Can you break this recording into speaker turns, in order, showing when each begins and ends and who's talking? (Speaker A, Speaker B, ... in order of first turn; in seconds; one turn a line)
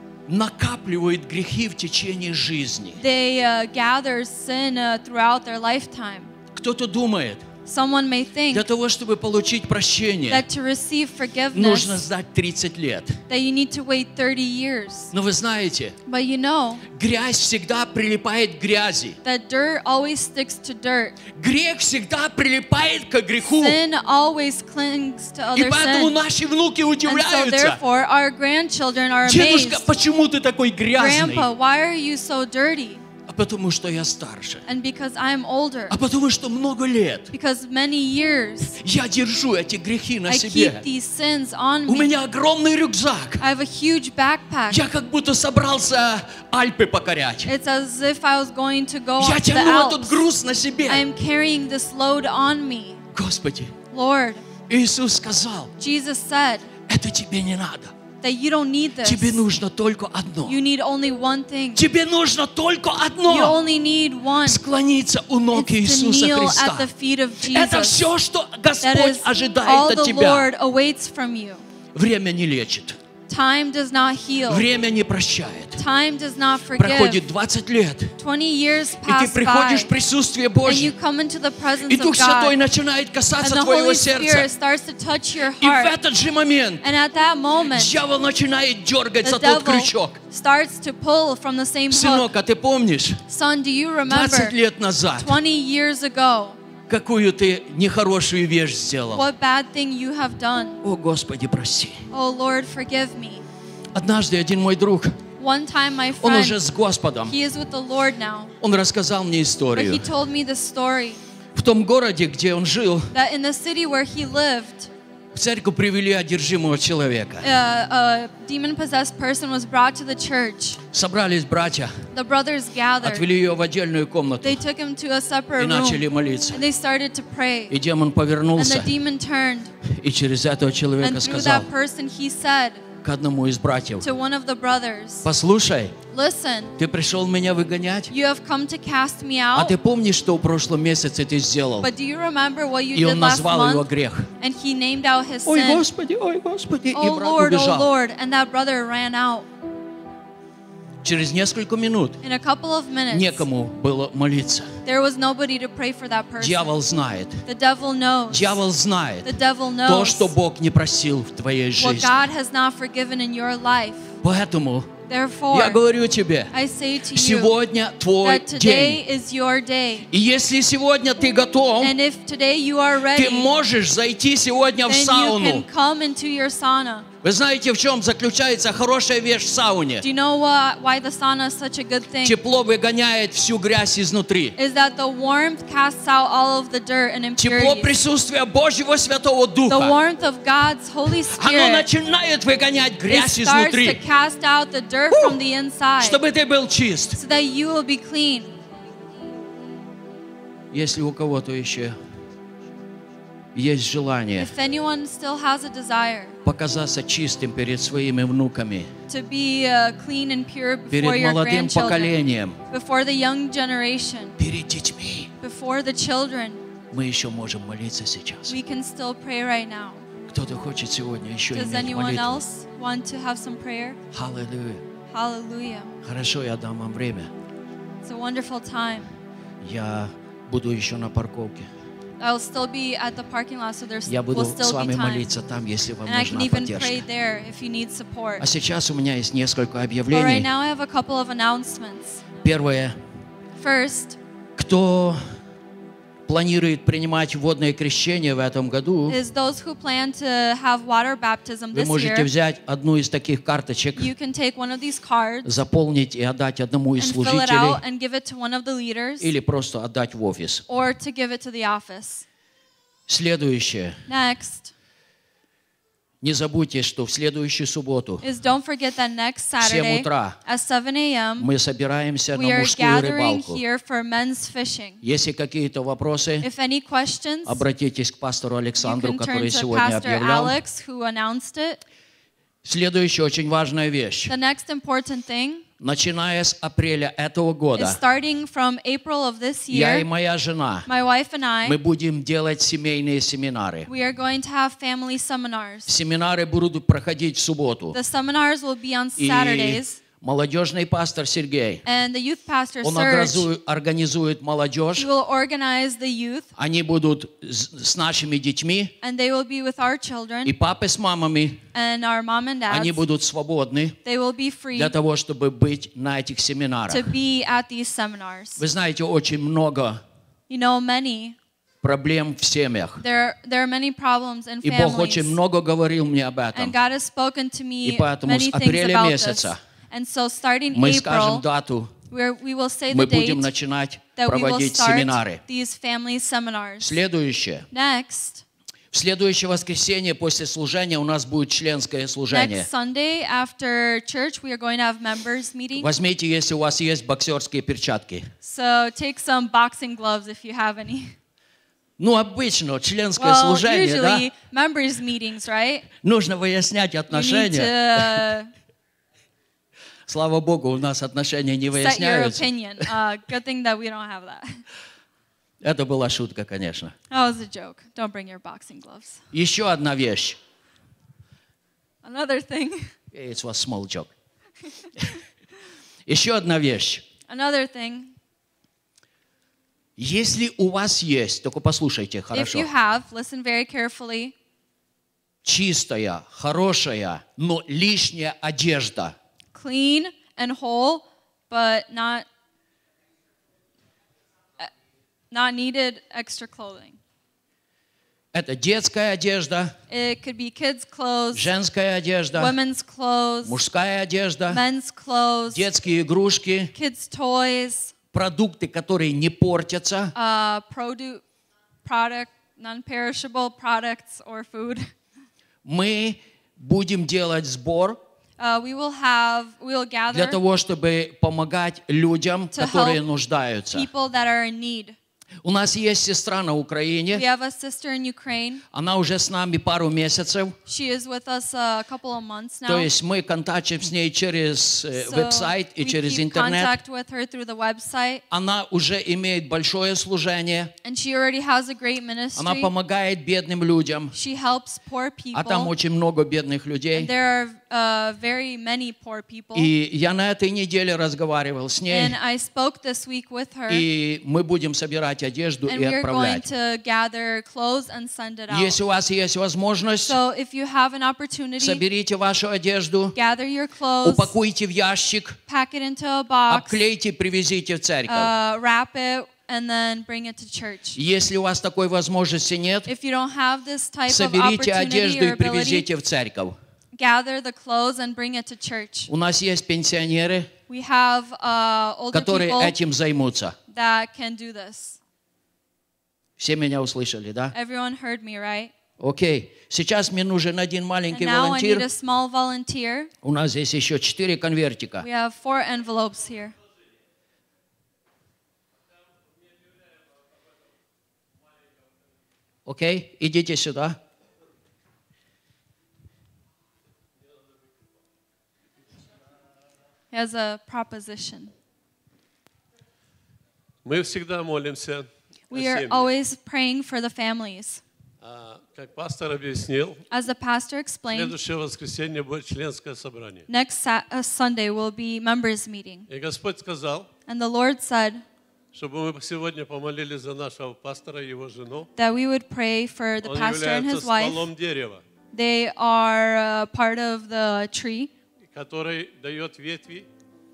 Speaker A: 0.3-3.0
Speaker B: 3.0-6.3
Speaker A: 6.5-7.5
Speaker B: 7.7-8.7
Speaker A: 8.5-10.5
Speaker B: 10.3-12.1
Speaker A: 11.5-13.2
Speaker B: 13.3-15.1
Speaker A: 15.1-15.9
Speaker B: 16.1-16.8
Speaker A: 16.9-19.2
Speaker B: 19.2-21.2
Speaker A: 21.2-23.8
Speaker B: 23.4-26.2
Speaker A: 25.5-27.8
Speaker B: 27.1-29.9
Speaker A: 29.2-31.5
Speaker B: 30.9-33.0
Speaker A: 33.3-34.6
Speaker B: 34.7-36.0
Speaker A: 35.9-37.3
Speaker B: 37.3-38.8
Speaker A: 38.8-40.9
Speaker B: 40.3-42.1
Speaker A: 41.9-43.5
Speaker B: 43.4-44.8
Speaker A: 44.7-47.5
Speaker B: 47.5-50.2
Speaker A: 49.2-51.1
Speaker B: 50.9-53.0
Speaker A: 53.1-53.8
Speaker B: 53.9-54.5
Speaker A: 54.7-55.7
Speaker B: 55.8-56.7
Speaker A: 56.9-58.0
Speaker B: 58.2-59.5
Speaker A: 59.0-60.6
Speaker B: 60.5-61.8
Speaker A: 61.8-63.6
Speaker B: 63.3-64.6
Speaker A: 64.4-70.5
Speaker B: 65.5-68.1
Speaker B: 68.8-71.6
Speaker A: 72.0-73.0
Speaker B: 73.3-74.7
Speaker A: 74.5-75.8
Speaker B: 75.8-77.2
Speaker A: 76.7-78.1
Speaker B: 78.2-79.9
Speaker A: 79.0-80.9
Speaker B: 80.7-82.6
Speaker A: 81.9-84.5
Speaker B: 83.4-86.0
Speaker A: 85.6-86.9
Speaker B: 86.8-88.0
Speaker A: 87.7-90.2
Speaker B: 89.2-92.3
Speaker A: 91.9-93.2
Speaker B: 93.3-94.6
Speaker A: 94.1-95.4
Speaker B: 95.2-96.6
Speaker A: 96.9-99.3
Speaker B: 99.1-100.8
Speaker A: 100.8-102.0
Speaker B: 102.1-103.4
Speaker A: 104.0-105.2
Speaker B: 105.4-106.7
Speaker A: 106.2-107.4
Speaker B: 107.3-108.5
Speaker A: 108.6-110.1
Speaker B: 109.7-111.2
Speaker A: 111.5-113.1
Speaker B: 113.1-114.9
Speaker A: 115.3-117.5
Speaker B: 117.4-120.8
Speaker A: 120.9-121.9
Speaker B: 122.1-123.3
Speaker A: 123.0-124.6
Speaker B: 124.4-127.8
Speaker A: 125.6-126.6
Speaker A: 127.7-128.9
Speaker B: 128.6-129.7
Speaker A: 129.8-131.7
Speaker B: 131.0-132.8
Speaker A: 133.0-134.1
Speaker B: 134.0-135.3
Speaker A: 135.2-136.0
Speaker B: 136.1-136.8
Speaker A: 136.8-138.1
Speaker B: 138.1-139.8
Speaker A: 139.5-141.9
Speaker B: 141.8-143.9
Speaker A: 142.9-144.3
Speaker B: 144.4-145.9
Speaker A: 145.5-147.9
Speaker B: 146.9-149.5
Speaker A: 151.0-152.2
Speaker B: 152.2-153.5
Speaker A: 153.1-154.7
Speaker B: 154.8-156.8
Speaker A: 156.4-157.4
Speaker B: 157.5-158.6
Speaker A: 158.3-159.3
Speaker B: 159.2-160.3
Speaker A: 159.8-162.2
Speaker B: 161.8-164.1
Speaker A: 164.2-165.0
Speaker B: 165.1-165.8
Speaker A: 165.5-166.5
Speaker B: 166.5-167.6
Speaker A: 167.1-169.0
Speaker B: 168.2-170.1
Speaker A: 170.1-172.0
Speaker B: 171.8-173.5
Speaker A: 173.1-175.7
Speaker B: 174.9-177.1
Speaker A: 177.2-180.1
Speaker B: 180.0-182.4
Speaker A: 182.2-184.6
Speaker B: 184.6-187.9
Speaker A: 187.4-190.0
Speaker B: 189.7-191.9
Speaker A: 191.2-194.0
Speaker B: 193.1-196.2
Speaker A: 195.1-195.4
Speaker A: 196.0-197.2
Speaker B: 197.1-198.6
Speaker A: 200.7-202.0
Speaker A: 203.6-204.5
Speaker B: 204.3-206.4
Speaker A: 206.4-208.9
Speaker B: 209.1-212.2
Speaker A: 210.9-212.6
Speaker B: 212.7-214.4
Speaker A: 214.4-215.3
Speaker B: 215.4-216.6
Speaker A: 216.9-218.6
Speaker B: 218.5-220.1
Speaker A: 220.3-222.4
Speaker B: 221.5-224.0
Speaker A: 224.1-224.8
Speaker B: 225.1-225.9
Speaker A: 226.0-227.3
Speaker B: 228.0-229.1
Speaker A: 229.6-231.7
Speaker B: 232.2-235.3
Speaker A: 234.1-237.0
Speaker B: 236.1-238.5
Speaker A: 238.4-240.5
Speaker B: 240.1-242.3
Speaker A: 242.4-243.0
Speaker B: 243.6-244.2
Speaker A: 244.6-245.2
Speaker A: 246.3-249.2
Speaker B: 249.1-252.3
Speaker A: 251.7-254.1
Speaker B: 254.0-255.5
Speaker A: 255.4-257.8
Speaker B: 257.0-259.3
Speaker A: 259.2-260.6
Speaker B: 260.7-262.2
Speaker A: 263.1-264.0
Speaker B: 264.1-264.7
Speaker A: 266.2-268.2
Speaker B: 268.2-271.5
Speaker A: 269.6-270.4
Speaker A: 271.4-273.6
Speaker B: 272.3-275.0
Speaker A: 275.0-276.5
Speaker B: 276.4-277.6
Speaker A: 277.4-280.6
Speaker B: 278.8-281.8
Speaker A: 282.6-284.4
Speaker B: 284.3-285.6
Speaker A: 285.8-288.0
Speaker B: 287.8-290.1
Speaker A: 289.7-290.9
Speaker B: 290.9-291.8
Speaker A: 291.6-293.9
Speaker B: 293.9-295.9
Speaker A: 295.9-298.0
Speaker B: 297.9-300.1
Speaker A: 299.2-301.8
Speaker B: 301.9-303.5
Speaker A: 302.8-305.1
Speaker B: 304.9-306.5
Speaker A: 306.6-308.9
Speaker B: 309.0-310.6
Speaker A: 310.4-311.6
Speaker B: 311.7-313.0
Speaker A: 312.7-314.0
Speaker B: 314.1-314.9
Speaker A: 314.7-317.2
Speaker B: 316.9-318.6
Speaker A: 318.6-320.0
Speaker B: 320.5-321.4
Speaker A: 321.8-323.0
Speaker B: 323.0-325.4
Speaker A: 324.6-326.8
Speaker B: 326.5-331.5
Speaker A: 327.8-329.6
Speaker A: 330.7-332.0
Speaker B: 332.1-333.5
Speaker A: 332.9-335.4
Speaker B: 334.1-337.0
Speaker A: 336.8-337.7
Speaker B: 337.7-338.4
Speaker A: 338.9-342.7
Speaker B: 342.3-345.9
Speaker A: 345.8-348.3
Speaker B: 348.4-351.1
Speaker A: 352.0-354.3
Speaker B: 353.2-355.9
Speaker A: 356.0-358.3
Speaker B: 357.1-358.5
Speaker A: 360.1-362.9
Speaker B: 361.7-364.6
Speaker A: 365.6-366.9
Speaker B: 367.1-369.2
Speaker A: 369.3-370.4
Speaker B: 372.0-372.9
Speaker A: 373.1-374.1
Speaker A: 376.1-377.1
Speaker B: 377.2-378.1
Speaker A: 380.0-382.7
Speaker B: 382.3-384.3
Speaker A: 385.4-389.1
Speaker B: 389.5-392.3
Speaker B: 395.3-397.0
Speaker A: 398.3-399.8
Speaker B: 399.9-401.5
Speaker A: 401.3-402.6
Speaker B: 402.3-403.6
Speaker A: 403.4-404.7
Speaker B: 404.5-405.7
Speaker A: 405.5-406.7
Speaker B: 406.7-407.9
Speaker A: 408.1-410.1
Speaker B: 410.1-411.2
Speaker B: 411.9-414.9
Speaker A: 415.6-418.0
Speaker B: 418.4-420.4
Speaker A: 420.1-423.9
Speaker B: 422.5-423.0
Speaker B: 423.7-425.0
Speaker A: 425.4-427.2
Speaker B: 427.1-428.6
Speaker A: 428.7-430.6
Speaker B: 430.7-432.9
Speaker A: 432.7-436.8
Speaker B: 434.9-438.2
Speaker A: 438.3-440.7
Speaker B: 440.8-442.7
Speaker A: 442.4-444.1
Speaker B: 444.1-445.7
Speaker A: 445.3-447.1
Speaker B: 446.9-449.7
Speaker A: 449.5-452.2
Speaker B: 451.9-453.9
Speaker A: 453.7-456.4
Speaker B: 455.7-458.8
Speaker A: 458.5-460.2
Speaker B: 460.1-461.8
Speaker A: 461.6-463.2
Speaker B: 463.1-464.3
Speaker A: 464.0-465.4
Speaker B: 465.5-466.9
Speaker A: 466.5-468.3
Speaker B: 468.1-471.0
Speaker A: 470.9-472.9
Speaker B: 472.9-475.9
Speaker A: 474.1-476.6
Speaker B: 476.9-479.1
Speaker A: 479.1-480.5
Speaker B: 480.7-482.8
Speaker A: 482.1-483.6
Speaker B: 483.7-485.0
Speaker A: 486.4-487.5
Speaker B: 487.5-488.7
Speaker A: 489.0-491.9
Speaker B: 491.1-493.1
Speaker A: 493.2-495.1
Speaker B: 495.0-496.5
Speaker A: 502.7-504.0
Speaker B: 510.1-511.5
Speaker C: 513.9-516.1
Speaker B: 515.5-517.8
Speaker C: 518.2-520.0
Speaker B: 520.1-521.4
Speaker C: 521.1-523.5
Speaker B: 523.5-526.1
Speaker C: 526.1-527.1
Speaker B: 527.3-528.2
Speaker C: 528.7-531.9
Speaker B: 532.0-534.5
Speaker C: 533.2-535.0
Speaker B: 535.3-538.1
Speaker C: 538.5-540.1